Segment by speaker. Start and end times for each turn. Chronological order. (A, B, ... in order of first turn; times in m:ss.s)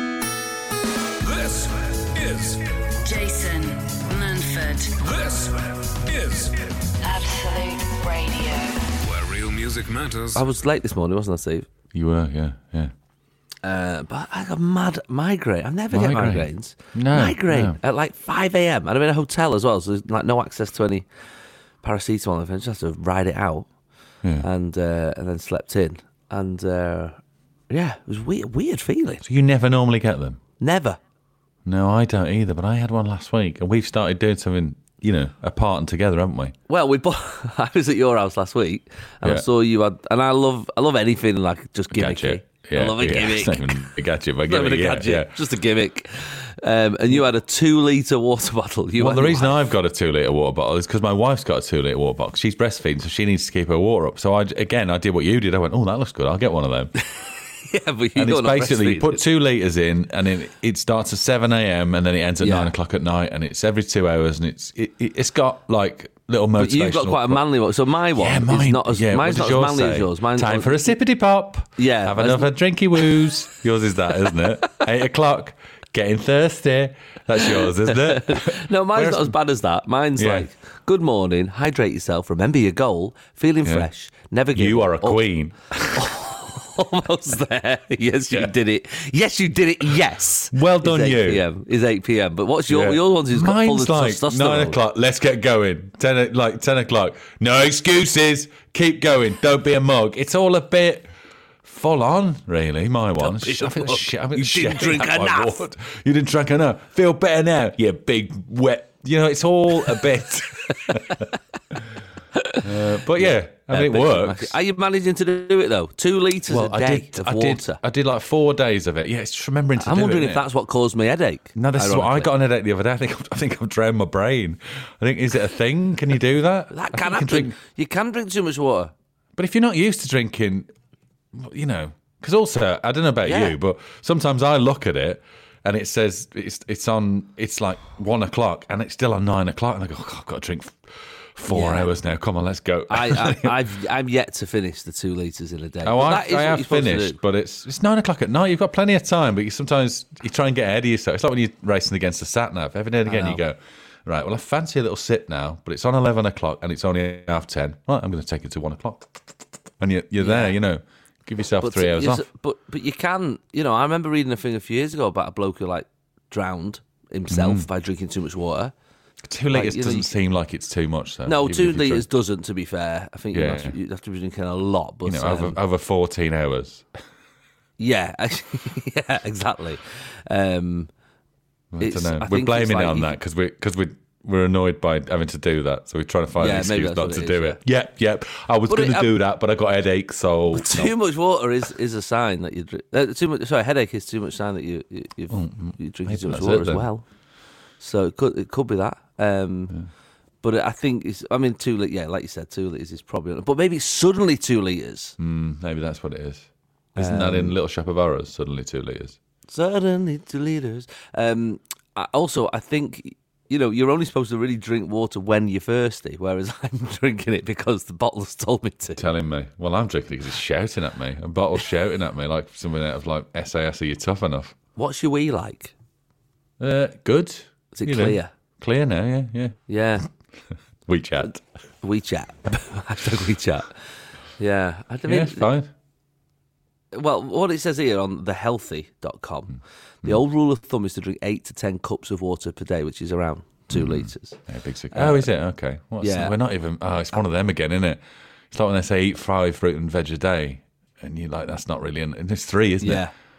0:01.2-0:02.9 A
0:03.0-0:05.0 B
0:05.0-0:06.9 A
0:07.0-0:08.9 B
0:09.0-0:10.5 A
0:10.4-0:11.7 C
0:11.9-0:12.9 D
0:13.6-0:21.1 C
0:15.9-0:17.8 D
0:21.8-0:23.7 C
0:24.4-0:29.2 C
0:29.2-0:30.4 D
0:30.6-0:31.0 C
0:31.6-0:36.6 D
0:36.7-0:49.6 C
0:41.9-0:45.4 D
0:49.0-0:56.9 D
0:57.0-0:59.2 C
0:58.2-1:07.4 D
1:02.4-1:02.7 C
1:06.6-1:11.0 C
1:08.2-1:19.4 D
1:11.8-1:13.1 C
1:17.4-1:25.2 C
1:20.2-1:20.5 D
1:24.5-1:26.2 D
1:25.9-1:34.8 C
1:30.5-1:31.4 D
1:32.7-1:41.1 D
1:41.6-1:51.8 D
1:43.2-1:45.7 C
1:50.7-1:51.3 C
1:52.4-1:57.8 C
1:52.6-1:54.6 D
1:56.4-2:00.5 D
1:59.8-2:02.3 C
2:01.6-2:07.5 D
2:06.7-2:08.9 C
2:09.4-2:10.7 D
2:11.3-2:23.6 D
2:13.2-2:13.6 C
2:21.5-2:21.9 C
2:22.9-2:27.2 C
2:25.8-2:42.2 D
2:33.0-2:33.4 C
2:40.2-2:40.6 C
2:41.6-2:48.7 C
2:47.3-2:47.7 D
2:49.2-2:52.1 D
2:49.5-2:50.1 C
2:51.2-2:55.6 C
2:53.3-2:53.8 D
2:55.0-2:56.9 D
2:57.8-3:00.9 C
3:01.7-3:11.0 D
3:01.8-3:03.1 C
3:06.4-3:07.6 C
3:08.7-3:09.1 C
3:10.5-3:17.0 C
3:15.3-3:16.9 D
3:17.8-3:19.8 C
3:20.4-3:25.2 C
3:25.2-3:29.2 D
3:27.0-3:27.6 C
3:29.5-3:39.1 C
3:39.0-3:44.6 D
3:44.8-3:45.7 C
3:46.6-3:49.6 D
3:47.7-3:48.3 C
3:49.7-3:50.1 C
3:50.9-3:51.4 D
3:51.8-3:53.7 C
3:54.4-3:55.5 C
3:55.1-3:55.7 D
3:56.9-4:04.4 C
4:03.7-4:13.1 D
4:04.9-4:05.3 C
4:06.0-4:06.4 C
4:12.8-4:13.1 C